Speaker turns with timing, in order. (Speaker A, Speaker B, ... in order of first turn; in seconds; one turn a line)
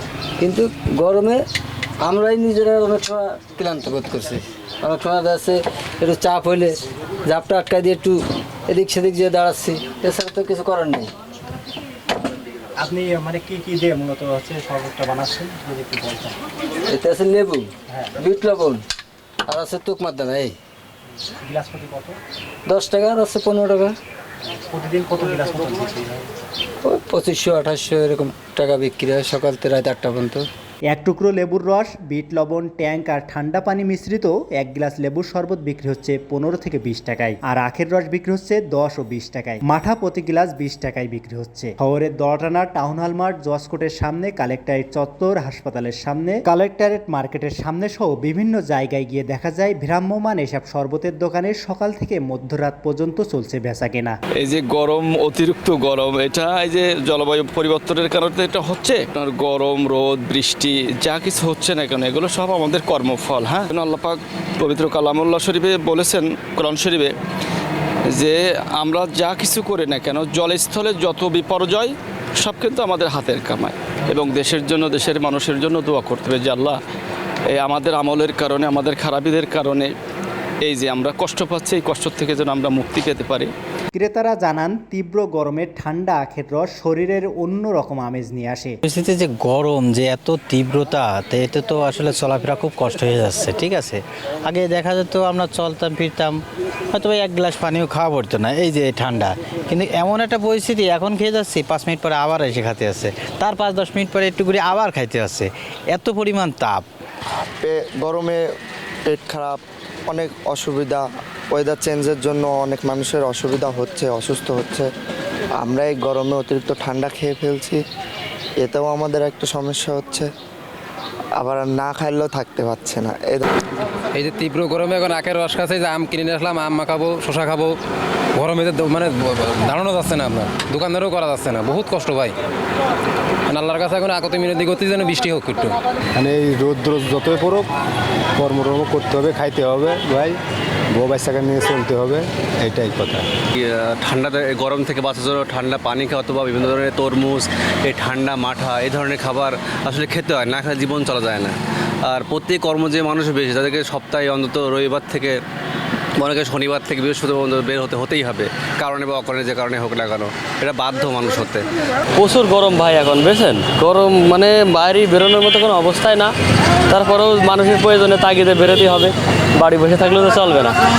Speaker A: 0.4-1.4
Speaker A: 2.0-6.7
Speaker A: 7.2-11.1
Speaker B: 12.8-16.4
Speaker A: 16.9-18.8
Speaker A: 19.4-20.6
Speaker B: 21.4-22.2
Speaker A: 22.6-23.9
Speaker B: 24.7-26.3
Speaker A: 26.8-30.4
Speaker B: 30.9-54.2
Speaker C: 54.4-67.1
Speaker C: 68.1-76.8
Speaker C: 77.5-79.9
Speaker C: 80.7-83.5
Speaker B: 83.9-88.8
Speaker D: 88.8-96.4
Speaker D: 96.9-106.8
Speaker E: 107.6-108.4
Speaker E: 109.0-114.9
Speaker E: 115.6-117.8
Speaker E: 118.6-120.3
Speaker E: 121.4-123.5
Speaker F: 124.1-127.7
Speaker F: 128.3-132.3
Speaker F: 133.5-135.8
Speaker G: 136.2-137.7
Speaker G: 138.4-140.4
Speaker G: 140.9-143.2
Speaker H: 143.5-155.4
Speaker H: 156.2-161.7
Speaker I: 162.2-166.3
Speaker I: 166.9-170.8